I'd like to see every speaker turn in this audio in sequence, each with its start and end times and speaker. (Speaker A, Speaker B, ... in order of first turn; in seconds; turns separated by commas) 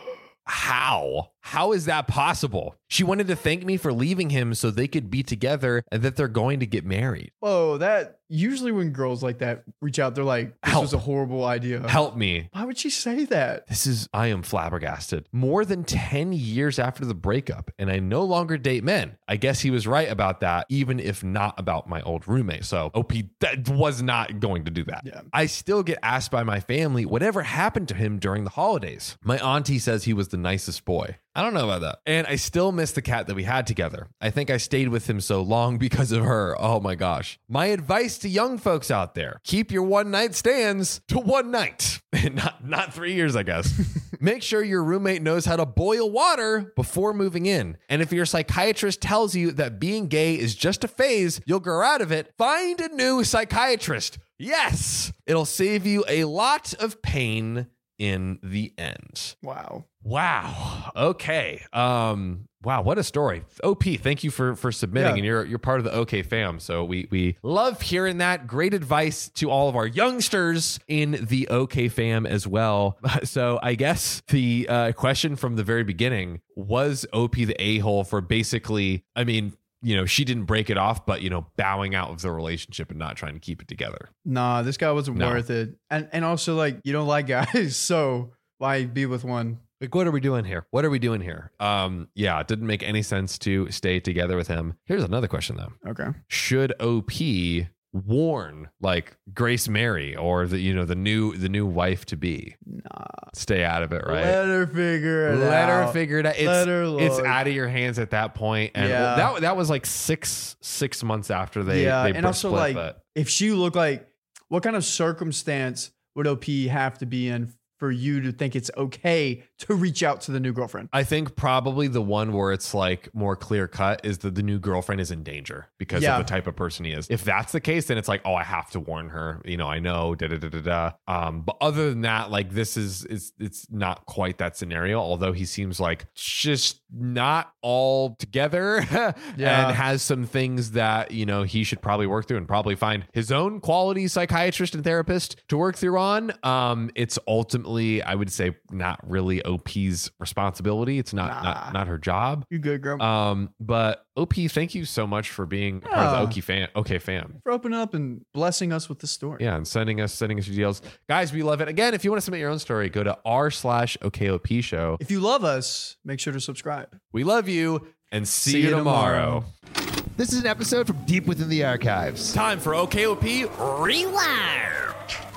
Speaker A: 0.5-7.3, Speaker B: 7.4-12.0, Speaker A: 10.6-11.0, Speaker A: 11.8-12.5, Speaker B: 12.5-13.6, Speaker A: 13.7-59.3, Speaker B: 25.0-25.3, Speaker B: 59.4-59.9, Speaker A: 60.0-84.1, Speaker B: 65.0-65.2, Speaker B: 84.2-89.6, Speaker A: 85.1-85.4, Speaker A: 89.8-95.8, Speaker B: 95.8-96.2, Speaker A: 96.3-102.5, Speaker B: 102.7-103.3, Speaker A: 103.3-104.4, Speaker B: 104.0-107.4, Speaker A: 105.3-113.0, Speaker B: 108.7-109.3, Speaker B: 111.7-120.9, Speaker A: 120.9-152.5, Speaker B: 125.9-126.3, Speaker B: 139.3-139.8, Speaker B: 151.2-151.8, Speaker B: 152.5-153.0, Speaker A: 153.0-157.4, Speaker B: 155.8-156.4, Speaker B: 157.4-159.4, Speaker A: 159.4-165.0, Speaker B: 165.0-166.9, Speaker A: 167.1-169.5, Speaker B: 168.4-169.4, Speaker C: 170.2-172.4, Speaker A: 172.3-175.0